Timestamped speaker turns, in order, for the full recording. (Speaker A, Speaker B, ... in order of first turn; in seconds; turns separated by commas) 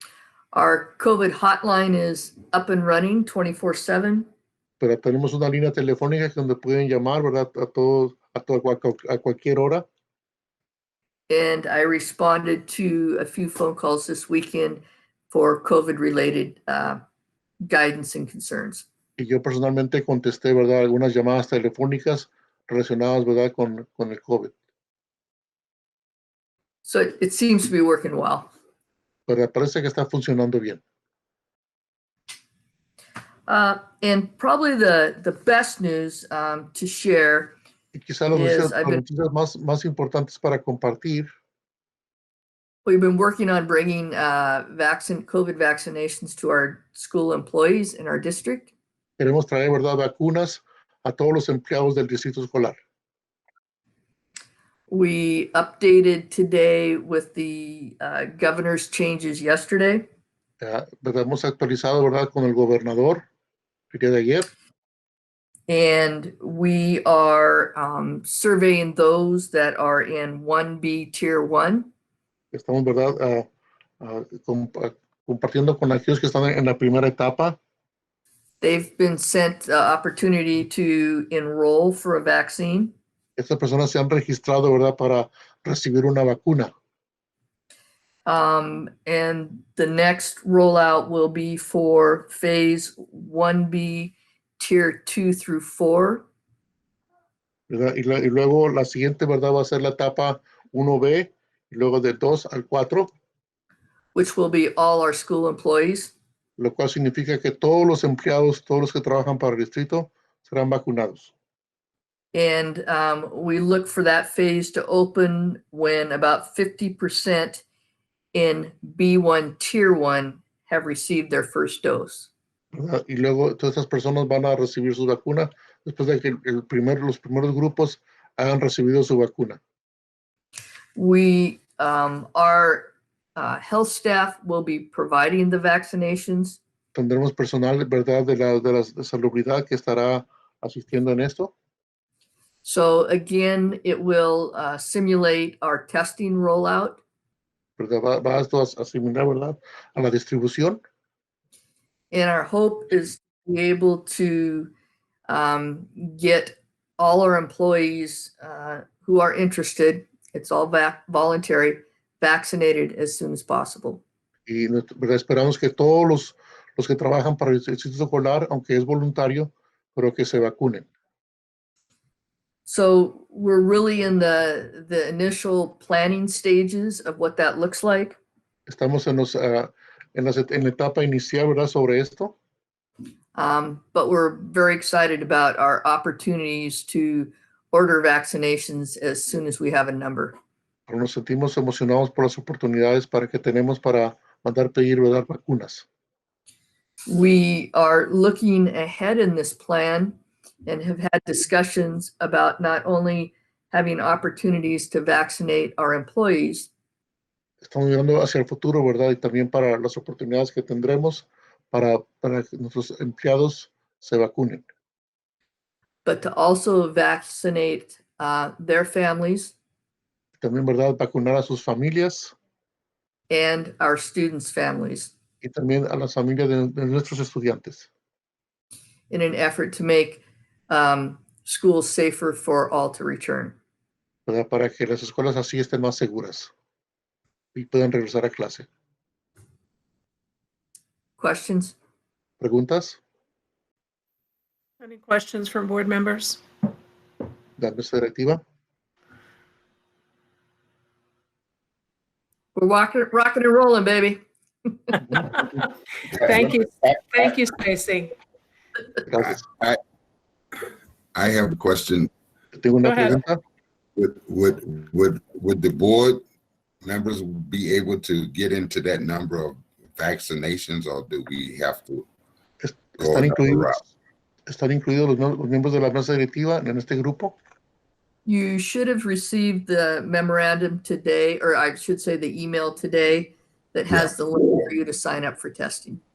Speaker A: 0.5-4.3, Speaker B: 4.8-9.8, Speaker A: 11.3-17.0, Speaker A: 17.7-18.9, Speaker B: 19.2-24.5, Speaker A: 26.8-28.5, Speaker B: 29.3-30.8, Speaker A: 33.5-37.6, Speaker B: 37.9-41.3, Speaker A: 38.3-39.0, Speaker A: 42.9-48.7, Speaker B: 49.2-52.8, Speaker A: 54.9-60.1, Speaker B: 60.6-63.2, Speaker B: 63.9-64.5, Speaker A: 65.7-71.9, Speaker B: 72.5-73.5, Speaker B: 74.0-77.6, Speaker A: 78.6-82.9, Speaker B: 83.4-86.7, Speaker A: 88.3-96.3, Speaker B: 97.7-103.1, Speaker A: 104.1-106.1, Speaker B: 106.6-111.3, Speaker A: 112.3-117.6, Speaker A: 118.3-122.3, Speaker B: 122.7-129.6, Speaker A: 131.0-136.6, Speaker B: 136.9-141.5, Speaker A: 142.6-147.0, Speaker B: 147.8-150.8, Speaker A: 152.1-154.7, Speaker A: 155.3-164.0, Speaker B: 164.5-170.9, Speaker A: 172.7-178.2, Speaker B: 178.7-182.3, Speaker A: 183.3-190.4, Speaker B: 190.9-195.8, Speaker A: 197.1-206.7, Speaker B: 207.6-214.7, Speaker A: 216.1-219.6, Speaker B: 220.4-222.3, Speaker A: 223.3-225.1, Speaker B: 225.4-227.9, Speaker A: 229.1-233.6, Speaker B: 234.3-236.5, Speaker B: 237.6-238.7, Speaker A: 241.2-241.8, Speaker B: 242.4-243.0, Speaker C: 244.8-246.4, Speaker B: 247.6-248.4, Speaker A: 252.6-254.8, Speaker D: 256.1-257.3, Speaker C: 256.2-258.1, Speaker B: 259.1-259.4, Speaker D: 259.2-259.8, Speaker D: 261.1-262.1, Speaker B: 262.5-263.4, Speaker C: 262.8-263.2, Speaker D: 264.0-266.2, Speaker D: 266.8-272.1, Speaker B: 272.6-273.8, Speaker D: 273.0-273.8, Speaker B: 274.5-277.4, Speaker A: 278.3-286.0